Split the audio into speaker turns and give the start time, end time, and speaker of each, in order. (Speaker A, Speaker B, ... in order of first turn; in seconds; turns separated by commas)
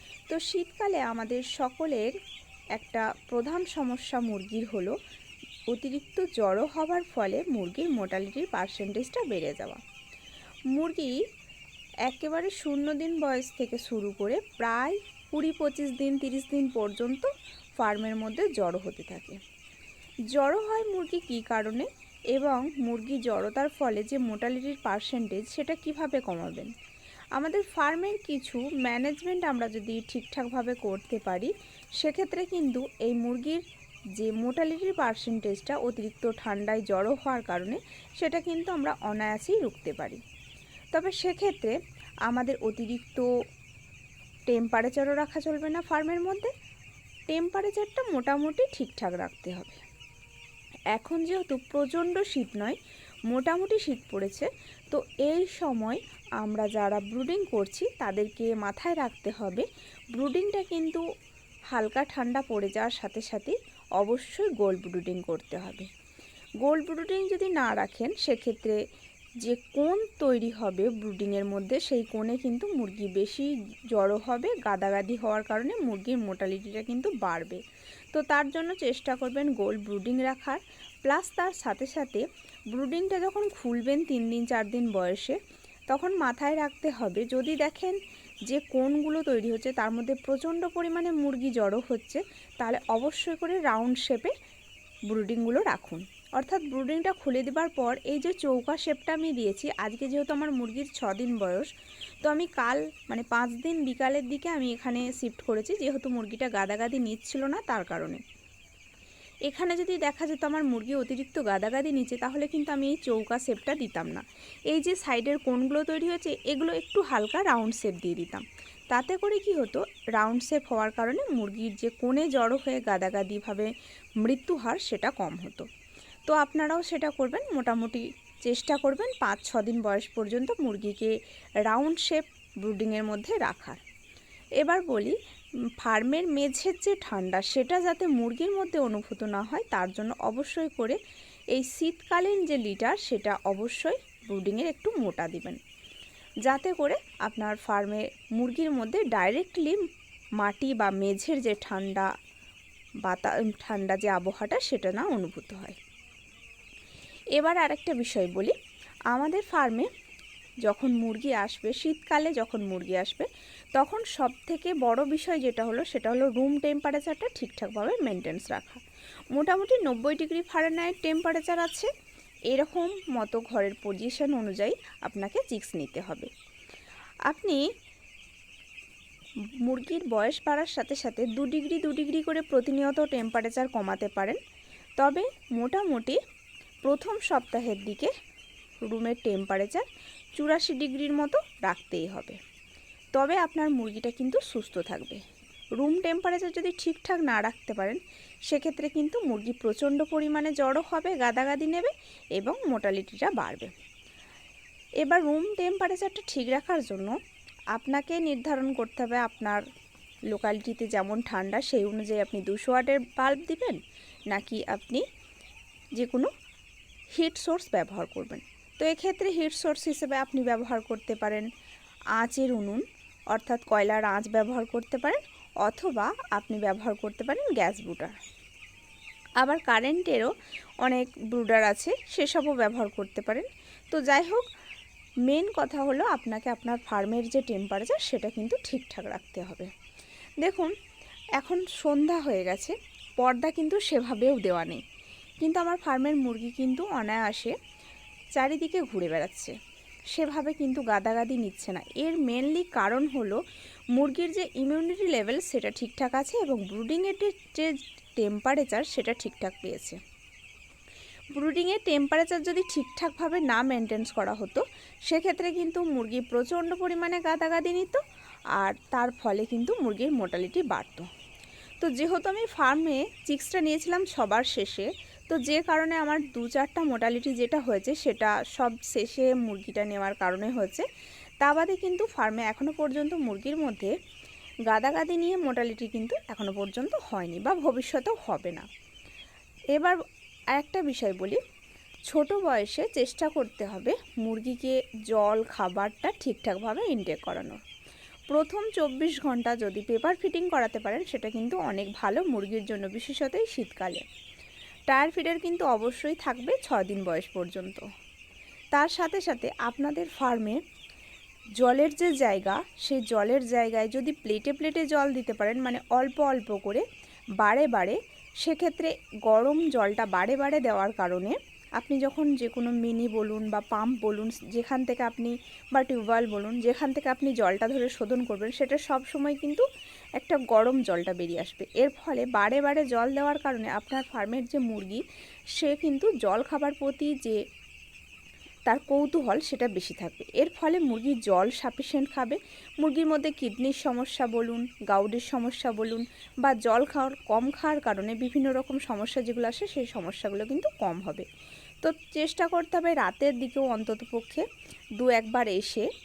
Speaker A: 0.3-2.1, Speaker A: 2.7-4.9, Speaker A: 5.7-9.8, Speaker A: 10.7-11.2, Speaker A: 12.0-19.4, Speaker A: 20.3-26.7, Speaker A: 27.4-33.6, Speaker A: 34.2-40.2, Speaker A: 40.9-41.8, Speaker A: 42.3-43.3, Speaker A: 44.5-46.5, Speaker A: 47.3-49.8, Speaker A: 50.9-52.8, Speaker A: 53.3-61.0, Speaker A: 61.7-65.9, Speaker A: 66.6-68.8, Speaker A: 69.4-77.6, Speaker A: 78.1-85.4, Speaker A: 85.9-94.3, Speaker A: 95.1-101.7, Speaker A: 102.2-108.2, Speaker A: 109.5-125.7, Speaker A: 126.3-131.1, Speaker A: 131.7-133.8, Speaker A: 134.6-135.2, Speaker A: 135.8-141.0, Speaker A: 141.5-145.6, Speaker A: 146.4-149.8, Speaker A: 150.4-152.1, Speaker A: 153.0-155.8, Speaker A: 157.3-158.5, Speaker A: 159.1-159.9, Speaker A: 160.6-171.9, Speaker A: 172.5-176.3, Speaker A: 177.3-177.6, Speaker A: 179.6-184.4, Speaker A: 185.0-186.2, Speaker A: 186.8-188.1, Speaker A: 188.8-192.4, Speaker A: 193.1-195.2, Speaker A: 195.8-203.7, Speaker A: 205.0-207.2, Speaker A: 207.7-209.6, Speaker A: 210.3-213.8, Speaker A: 214.3-215.0, Speaker A: 215.9-216.3, Speaker A: 217.1-221.5, Speaker A: 222.2-228.1, Speaker A: 229.4-234.4, Speaker A: 235.3-239.7, Speaker A: 240.4-240.7, Speaker A: 241.4-244.8, Speaker A: 245.4-247.5, Speaker A: 248.3-249.5, Speaker A: 250.1-253.4, Speaker A: 253.9-260.0, Speaker A: 261.3-268.0, Speaker A: 268.6-271.1, Speaker A: 271.8-280.9, Speaker A: 281.4-283.9, Speaker A: 284.7-288.7, Speaker A: 289.7-290.0, Speaker A: 290.5-291.4, Speaker A: 292.1-297.6, Speaker A: 298.3-304.0, Speaker A: 304.9-307.8, Speaker A: 308.7-310.6, Speaker A: 311.6-316.8, Speaker A: 317.4-329.6, Speaker A: 330.2-335.0, Speaker A: 335.5-337.4, Speaker A: 338.7-351.3, Speaker A: 351.8-354.4, Speaker A: 355.0-355.9